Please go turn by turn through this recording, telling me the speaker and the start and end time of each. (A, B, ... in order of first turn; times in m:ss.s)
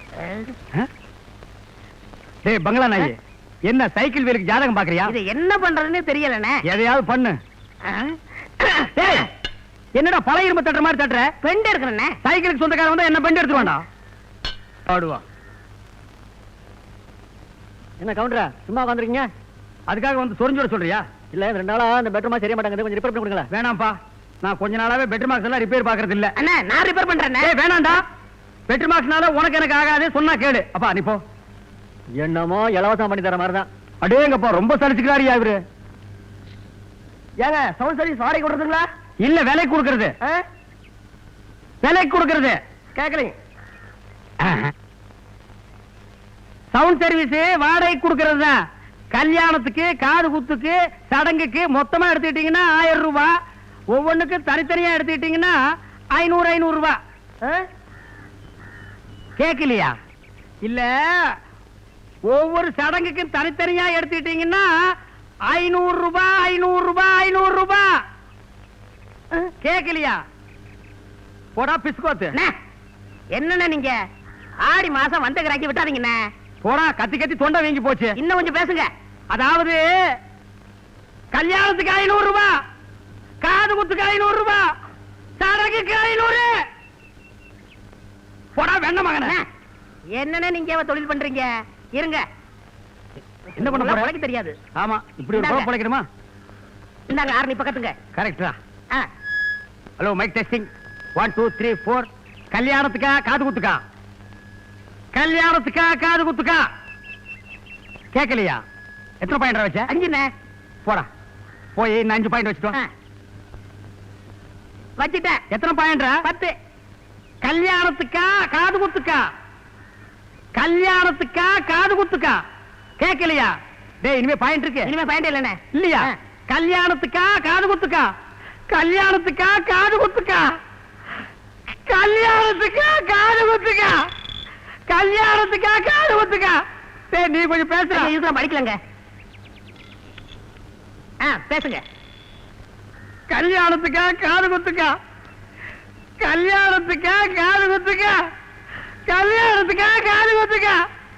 0:00.2-0:00.5 A
0:02.4-0:03.1 B
0:03.7-0:05.1 B
0:05.1-0:06.6 A
0:06.7-0:07.4 B
0:07.8-0:09.2 A
0:09.0-0:09.3 B
0:09.9-0:11.3 B
0:11.4-0:12.1 A
0:12.2-0:13.8 B
0:14.9-0:15.2 B
0:18.0-0:19.3 C
0:19.9-0:21.0 B
0:21.3-0:23.5 C
0:23.5-0:26.3 B
0:26.4-0:27.5 A
0:27.4-0:28.0 B
0:28.7-0:31.2 B
0:32.2-0:33.7 C
0:34.0-0:35.6 B
0:37.4-0:38.8 A
0:39.2-0:40.1 B
0:41.8-0:42.6 B
0:43.0-0:43.3 A
0:44.4-0:44.7 B
0:46.7-0:48.6 B
0:49.1-0:53.3 B
0:53.9-0:55.6 B
0:56.1-0:57.0 B
0:59.4-0:59.9 B
1:00.6-1:01.3 B
1:02.3-1:04.7 B
1:05.5-1:08.0 B
1:09.4-1:10.2 B
1:11.6-1:12.3 B
1:13.3-1:14.0 A
1:14.6-1:16.2 A
1:16.6-1:18.1 B
1:18.2-1:18.9 A
1:19.3-1:19.8 B
1:21.3-1:22.5 B
1:23.4-1:24.7 B
1:25.4-1:26.5 B
1:28.6-1:29.4 B
1:30.1-1:32.2 A
1:33.6-1:34.6 A
1:33.6-1:34.1 B
1:34.8-1:36.0 B
1:35.3-1:35.7 A
1:37.1-1:37.9 A
1:38.2-1:38.6 B
1:40.0-1:43.8 B
1:45.1-1:46.6 B
1:48.1-1:48.6 B
1:49.2-1:49.9 B
1:49.9-1:50.3 A
1:51.8-1:52.8 B
1:55.0-1:55.4 A
1:55.5-1:56.2 B
1:56.2-1:56.5 A
1:57.4-1:59.2 B
2:00.5-2:02.4 B
2:03.0-2:04.9 B
2:04.8-2:06.1 A
2:05.7-2:08.1 B
2:08.7-2:10.5 B
2:11.9-2:14.0 B
2:14.9-2:16.6 B
2:17.1-2:18.1 B
2:17.9-2:18.8 A
2:21.2-2:21.8 A
2:23.3-2:24.9 B
2:26.2-2:28.2 B
2:29.1-2:30.8 B